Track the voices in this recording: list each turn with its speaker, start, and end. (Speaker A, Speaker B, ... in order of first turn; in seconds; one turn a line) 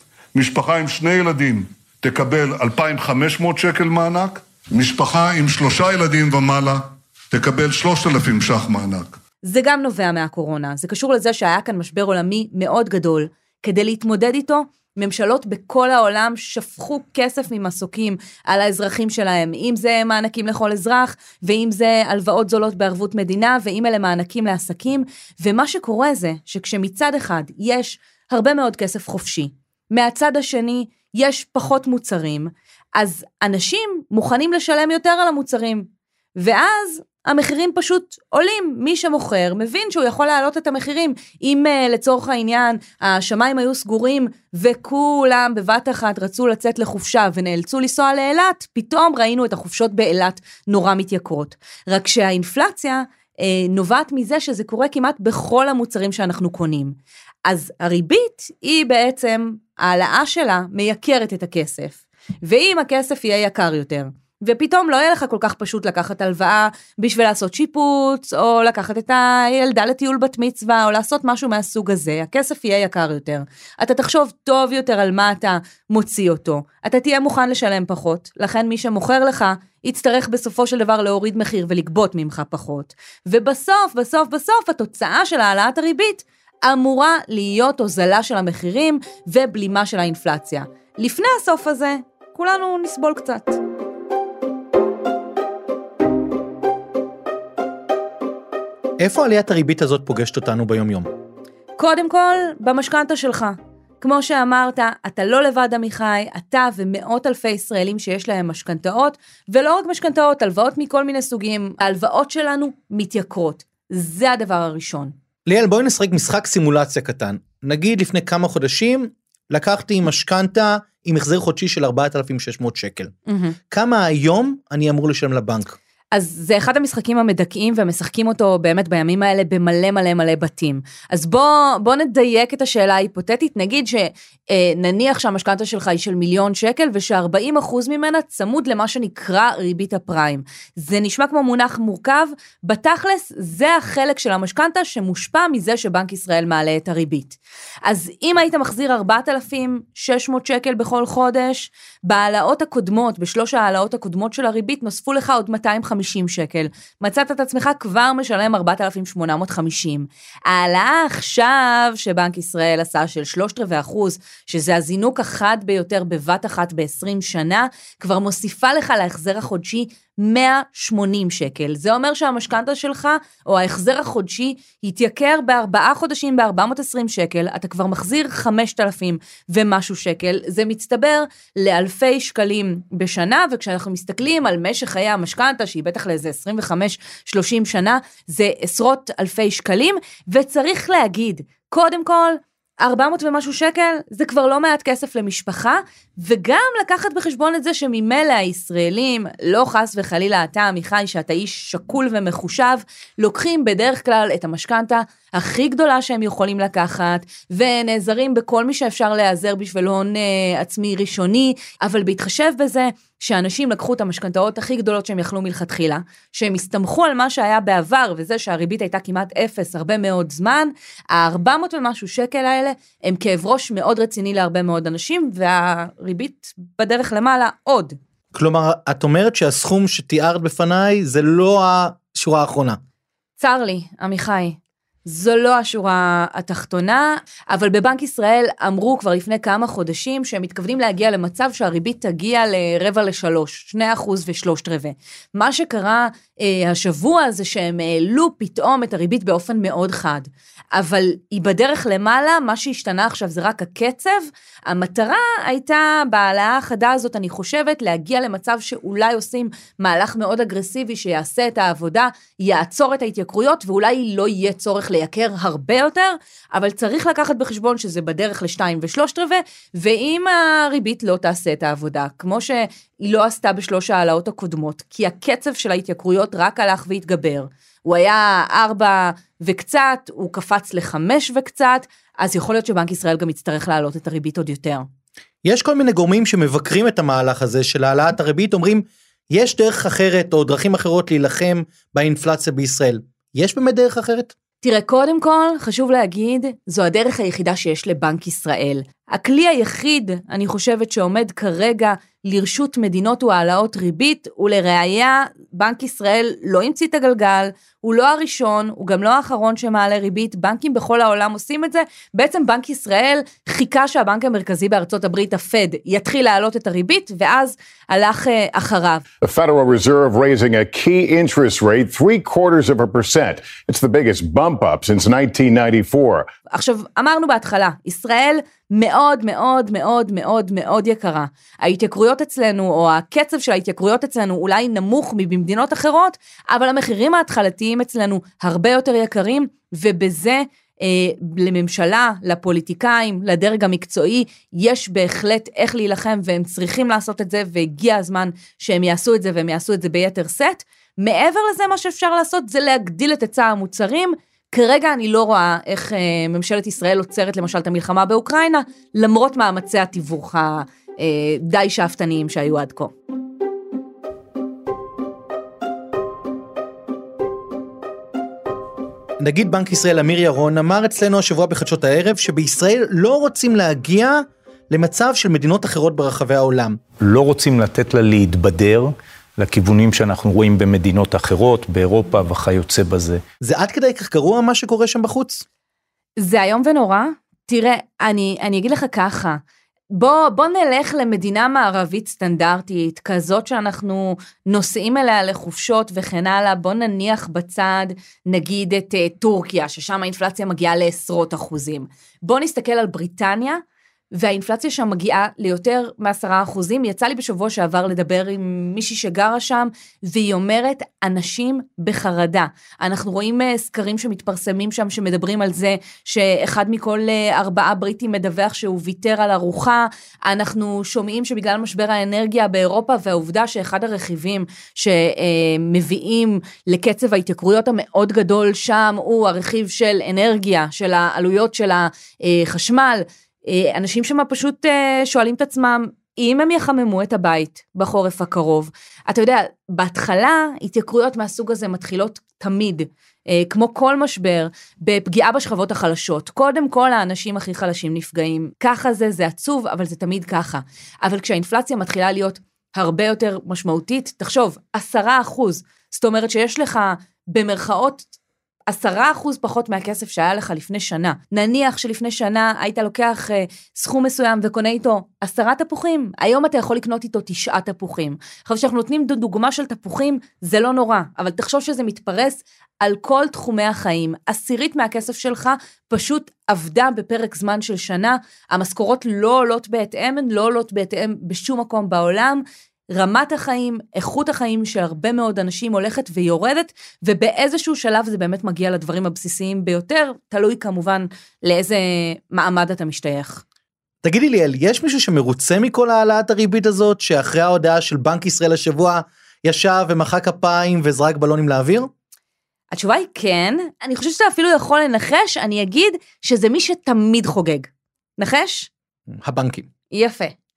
Speaker A: 0.3-9.2
Speaker B: 9.4-93.6
Speaker C: 99.0-101.1
Speaker B: 101.8-115.1
Speaker C: 115.5-123.1
Speaker B: 123.3-123.6
Speaker C: 123.7-125.8
Speaker B: 126.1-228.0
Speaker C: 228.3-232.8
Speaker B: 233.4-284.9
Speaker C: 285.4-294.3
Speaker B: 294.6-319.1
Speaker D: 319.2-326.2
Speaker B: 326.5-362.9
Speaker C: 369.2-376.8
Speaker E: 377.0-383.2
Speaker C: 383.4-385.4
Speaker B: 386.2-389.4
Speaker B: 389.9-403.6
Speaker B: 404.1-458.1
Speaker B: 458.7-493.4
Speaker C: 494.0-501.9
Speaker B: 502.7-508.7
Speaker C: 509.1-509.7
Speaker B: 509.9-510.4